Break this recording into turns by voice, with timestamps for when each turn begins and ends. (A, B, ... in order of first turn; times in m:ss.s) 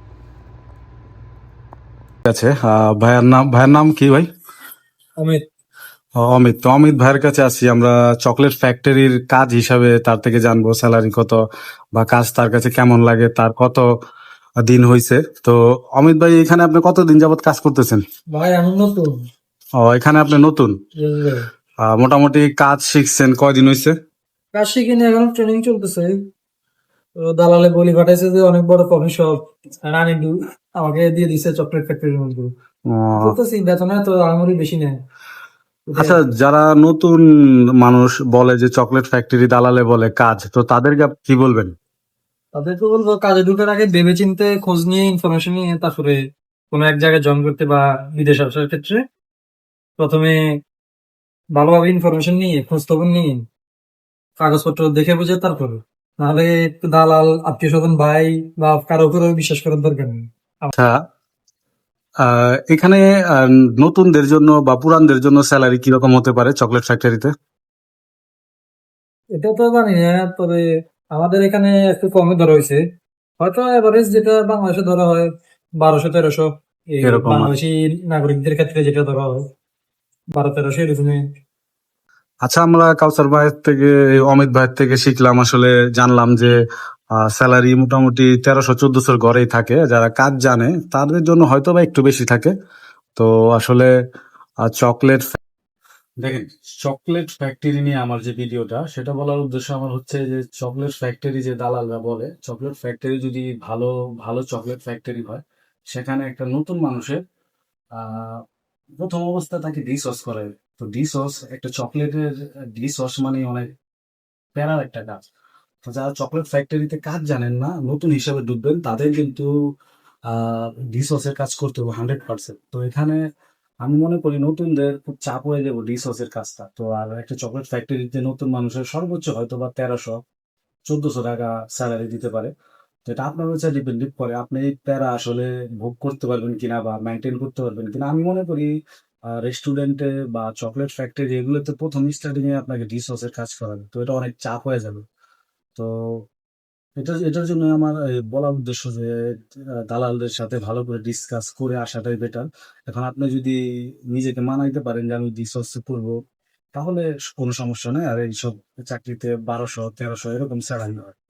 0:02.2-0:04.3 A
0:06.2-0:11.4 A
0:11.9-0:13.9 A
0:14.6-0:18.0 A
0:18.3-0:19.2 B
0:19.8-0:20.8 A
0:21.0-0:21.4 B
0:21.8-0:23.9 A
0:24.5-0:26.2 B
0:27.2-0:32.5 B
0:32.9-0:33.4 A
0:33.2-0:35.0 B
0:35.9-0:36.2 B
0:35.9-0:37.2 A
0:37.8-0:41.7 A
0:42.5-0:46.2 B
0:46.7-0:49.0 B
0:50.0-0:50.4 B
0:51.5-0:53.4 B
0:54.4-1:00.7 B
1:00.7-1:01.0 A
1:02.2-1:07.3 A
1:09.3-1:12.8 B
1:13.4-1:15.3 B
1:15.8-1:19.4 B
1:17.0-1:17.5 A
1:20.3-1:21.2 B
1:22.4-1:26.6 A
1:27.1-1:32.5 A
1:33.2-1:33.9 A
1:34.6-1:35.4 A
1:36.2-1:47.2 A
1:48.0-1:48.4 A
1:49.0-1:53.7 A
1:54.6-1:55.2 A
1:55.8-1:59.5 A
2:00.3-2:03.2 A
2:03.8-2:10.2 A
2:10.9-2:12.5 A
2:13.0-2:18.7 A
2:19.3-2:25.0 A
2:25.7-2:26.2 A
2:27.0-2:33.6 A
2:34.1-2:36.2 A
2:36.7-2:41.1 A